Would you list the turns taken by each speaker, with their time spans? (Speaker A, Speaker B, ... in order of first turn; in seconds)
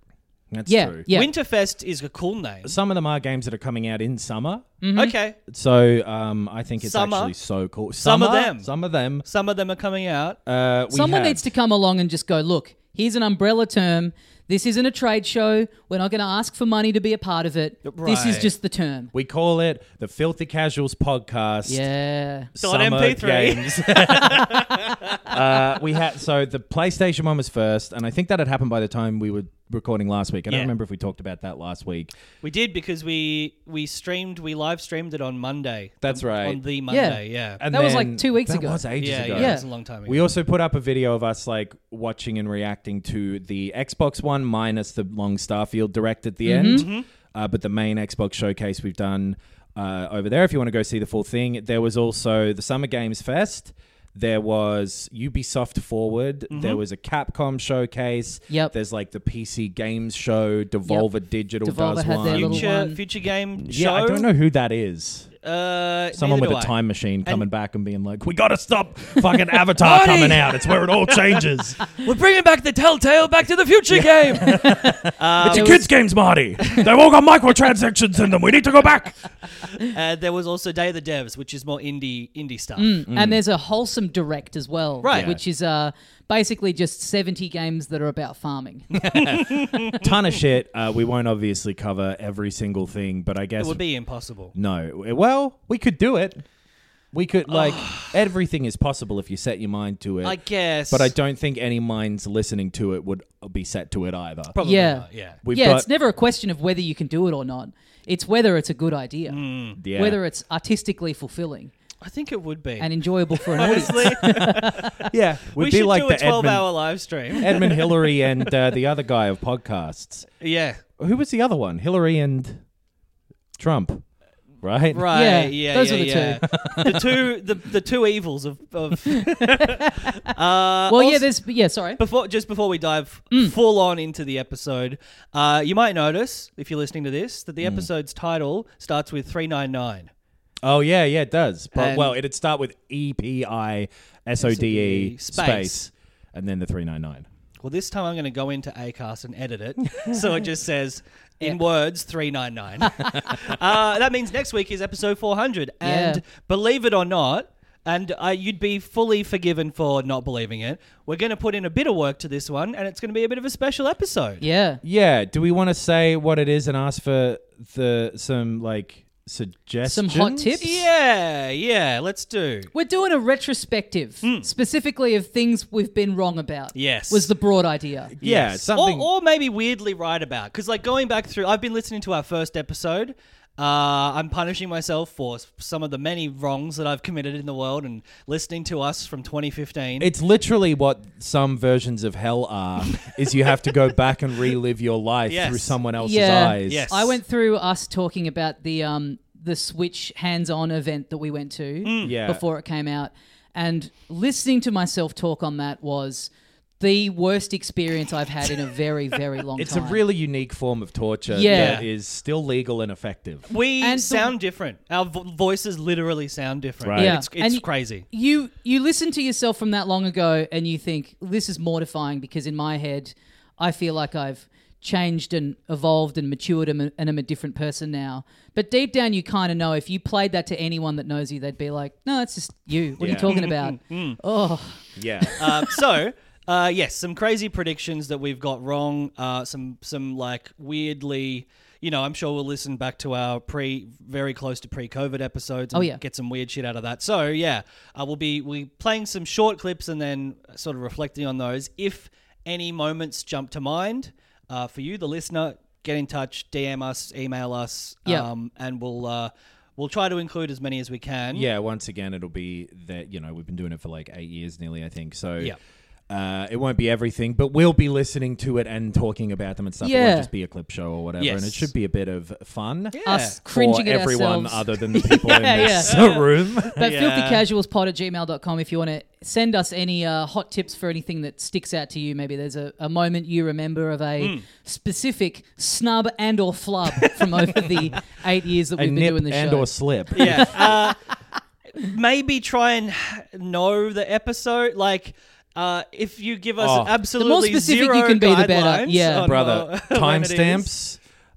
Speaker A: 0.5-1.1, 2.6-4.7, 5.5-9.2, 10.4-11.4, 19.1-21.8, 22.5-32.1, 36.0-36.6, 37.6-62.6, 63.6-65.3, 66.1-71.9, 73.9-79.3, 83.1-83.4, 85.1-85.4, 88.9-93.8, 94.5-96.4, 97.1-104.5, 105.4-105.9, 109.8-110.2, 113.6-116.7, 117.4-120.3, 121.0-122.6, 123.6-124.0, 124.6-125.1, 126.6-126.9, 137.6-137.9, 140.6-147.3, 153.0-153.4, 164.8-170.6, 178.1-179.1, 190.0-196.9, 202.0-202.4, 209.6-213.5, 216.8-217.2, 233.0-233.4, 234.9-235.6, 261.3-265.5, 266.1-276.8, 288.8-290.8, 296.6-297.0, 299.2-301.0
Speaker B: 0.7-1.3, 4.8-5.2, 10.9-19.1, 21.6-22.5, 36.9-39.6, 46.4-46.9, 58.5-58.7, 61.6-63.0, 75.5-75.9, 82.8-88.9, 104.6-111.7, 112.8-114.9, 125.1-126.9, 129.1-130.3, 130.9-132.0, 133.3-133.6, 155.8-156.2, 164.4-164.8, 169.8-170.9, 172.7-178.1, 196.0-210.0, 211.3-211.8, 213.8-214.3, 216.9-235.6, 245.7-246.0, 269.8-270.3, 273.0-276.2, 276.8-290.8, 297.1-299.3
Speaker C: 1.1-2.8, 5.0-5.4, 6.8-7.3, 8.0-8.7, 9.2-10.4, 17.9-18.5, 22.6-25.4, 32.4-37.6, 39.0-40.2, 46.7-47.0, 56.5-56.8, 62.2-64.3, 65.4-67.5, 69.7-74.7, 75.2-75.8, 79.8-83.0, 85.0-85.4, 88.9-90.1, 93.6-94.5, 97.5-98.2, 100.2-101.1, 104.5-105.4, 109.3-109.8, 112.0-118.1, 120.4-120.8, 124.9-131.3, 132.0-140.1, 141.7-142.2, 144.4-145.8, 147.6-164.4, 170.6-172.7, 174.2-174.5, 176.7-177.3, 178.2-190.1, 192.9-193.5, 195.3-195.8, 196.6-197.2, 201.8-202.2, 211.5-211.8, 213.5-218.1, 233.3-234.2, 235.4-261.5, 271.2-271.7, 272.9-273.4, 275.9-277.5, 290.1-291.0, 291.8-300.7